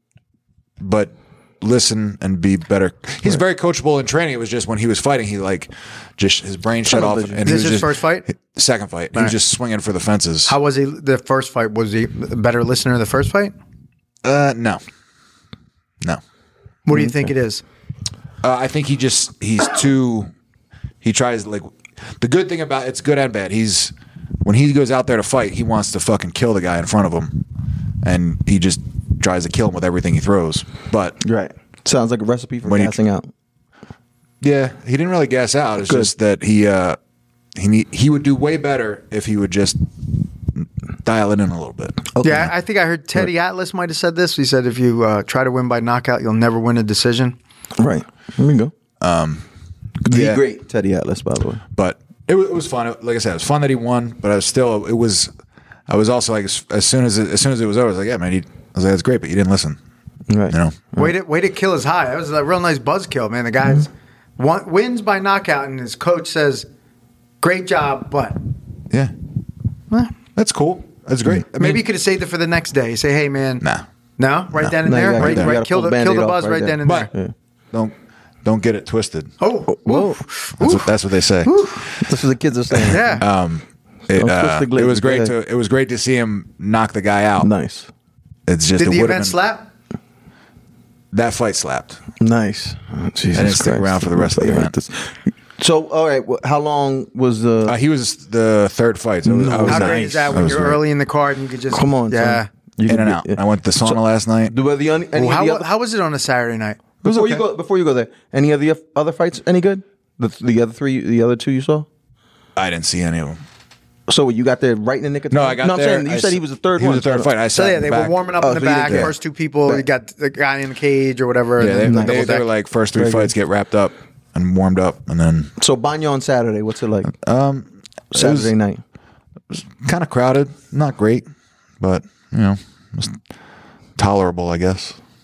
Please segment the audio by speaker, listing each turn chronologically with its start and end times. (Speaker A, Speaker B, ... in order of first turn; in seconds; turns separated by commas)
Speaker A: 0.8-10.5, Speaker B: 6.9-7.5, Speaker C: 7.4-8.2, Speaker C: 10.5-13.5, Speaker A: 14.2-14.8, Speaker C: 16.9-17.6, Speaker A: 18.4-20.3, Speaker A: 21.0-27.4, Speaker A: 28.0-31.2, Speaker B: 31.2-33.3, Speaker A: 32.6-32.9, Speaker A: 34.4-37.0, Speaker B: 35.8-36.1, Speaker A: 37.5-39.8, Speaker A: 40.6-42.1, Speaker B: 42.1-42.5, Speaker C: 42.2-47.4, Speaker B: 47.8-48.7, Speaker A: 49.0-49.4, Speaker A: 50.0-50.4, Speaker B: 50.0-51.6, Speaker A: 51.8-55.3, Speaker A: 55.9-59.8, Speaker B: 60.3-61.1, Speaker A: 60.5-60.9, Speaker C: 61.0-66.7, Speaker C: 67.4-68.4, Speaker A: 70.3-71.8, Speaker C: 71.5-73.6, Speaker C: 74.2-77.1, Speaker A: 74.5-75.5, Speaker B: 74.8-77.3, Speaker A: 77.7-79.3, Speaker C: 79.4-80.9, Speaker B: 79.7-80.2, Speaker A: 80.6-82.0, Speaker C: 81.4-81.9, Speaker B: 82.0-83.2, Speaker A: 82.7-87.5, Speaker C: 82.9-83.2, Speaker B: 84.1-85.3, Speaker B: 87.4-87.9, Speaker A: 88.5-89.4, Speaker C: 88.8-89.7, Speaker A: 91.1-92.0, Speaker B: 92.2-97.8, Speaker A: 93.3-94.7, Speaker A: 97.7-100.8, Speaker B: 99.2-100.6, Speaker C: 99.6-102.5, Speaker B: 101.7-105.7, Speaker A: 102.9-104.5, Speaker C: 105.1-106.8, Speaker A: 107.0-107.4, Speaker B: 107.0-111.9, Speaker A: 112.5-113.4, Speaker B: 114.1-117.3, Speaker A: 115.3-118.2, Speaker C: 117.5-122.4, Speaker B: 118.4-119.1, Speaker A: 118.9-119.1, Speaker A: 121.6-125.5, Speaker B: 121.8-122.3, Speaker B: 122.9-123.3, Speaker B: 125.6-127.1, Speaker A: 127.1-128.5, Speaker B: 128.1-128.8, Speaker A: 129.5-131.2, Speaker A: 131.8-133.2, Speaker A: 134.0-135.0